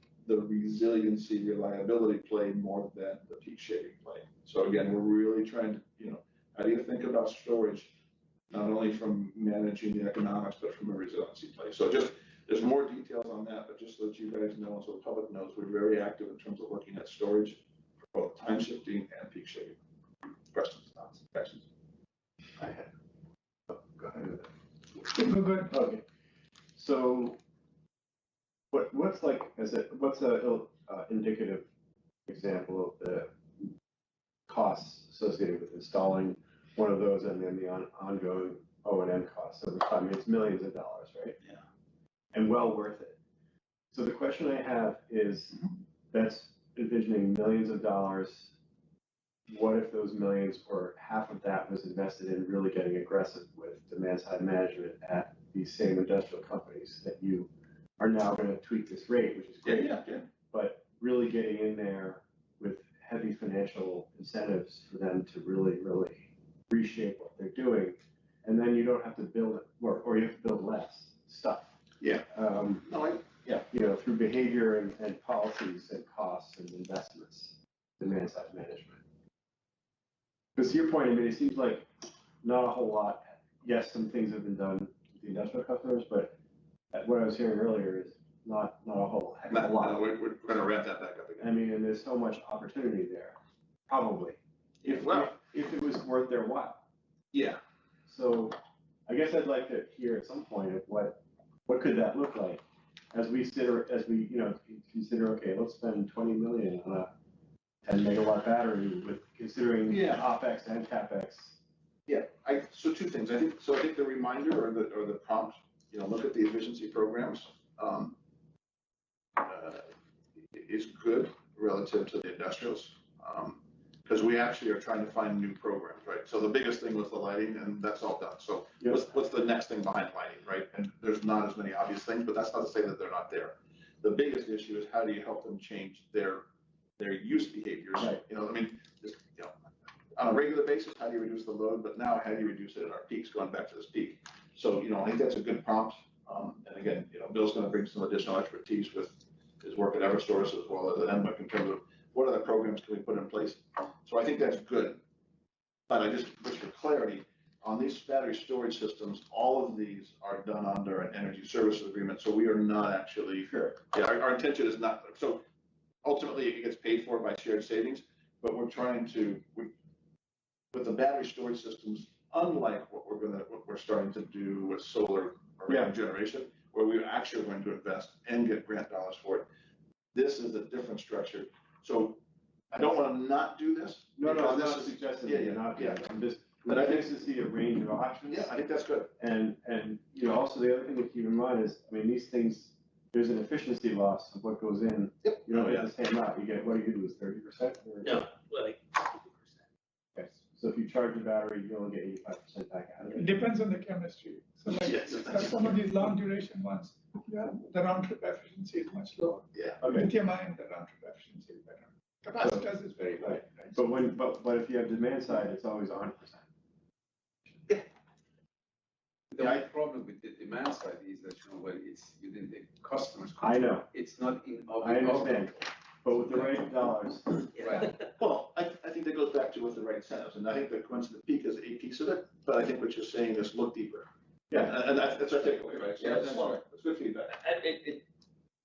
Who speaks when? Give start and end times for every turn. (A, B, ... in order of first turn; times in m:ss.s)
0:00.2-0:07.9 A
0:08.5-0:17.6 A
0:18.1-0:19.8 A
0:20.5-0:21.7 A
0:22.6-0:22.9 B
0:23.7-0:24.5 B
0:25.1-0:25.7 C
0:25.7-0:26.0 B
0:26.8-0:27.4 B
0:28.7-0:31.7 B
0:32.3-0:33.7 B
0:34.5-0:41.4 B
0:42.3-0:43.2 B
0:43.9-0:48.5 B
0:49.5-1:11.8 B
0:59.6-1:00.3 A
1:12.0-1:12.3 A
1:12.3-1:12.9 B
1:12.8-1:13.6 A
1:13.7-1:19.0 B
1:20.6-1:21.9 B
1:22.4-1:26.4 B
1:26.9-1:30.0 B
1:29.5-1:31.5 A
1:31.4-1:33.4 B
1:33.9-1:36.8 B
1:34.8-1:35.3 A
1:37.3-1:37.6 A
1:38.1-1:38.6 B
1:39.1-1:42.6 B
1:43.1-1:47.1 B
1:47.8-1:51.6 B
1:49.9-1:50.3 A
1:52.1-1:58.2 A
1:59.4-1:59.9 A
2:00.5-2:16.4 A
2:17.0-2:19.5 A
2:20.2-2:35.0 A
2:35.9-2:45.4 A
2:46.0-2:49.7 A
2:50.7-2:59.5 A
2:55.7-2:55.9 B
3:00.1-3:02.2 A
3:02.7-3:06.0 A
3:04.2-3:08.6 B
3:06.6-3:07.1 A
3:08.3-3:09.1 A
3:09.1-3:18.2 B
3:15.2-3:15.9 A
3:18.0-3:19.5 D
3:20.5-3:23.4 B
3:23.1-3:33.8 C
3:24.7-3:25.7 A
3:29.5-3:29.8 A
3:29.8-3:30.1 B
3:32.4-3:36.5 B
3:39.3-3:45.6 E
3:43.4-3:43.9 B
3:44.8-3:47.4 B
3:47.5-3:48.1 D
3:47.7-3:57.4 A
3:54.5-3:54.8 B
3:56.0-3:56.3 D
3:57.3-3:58.0 D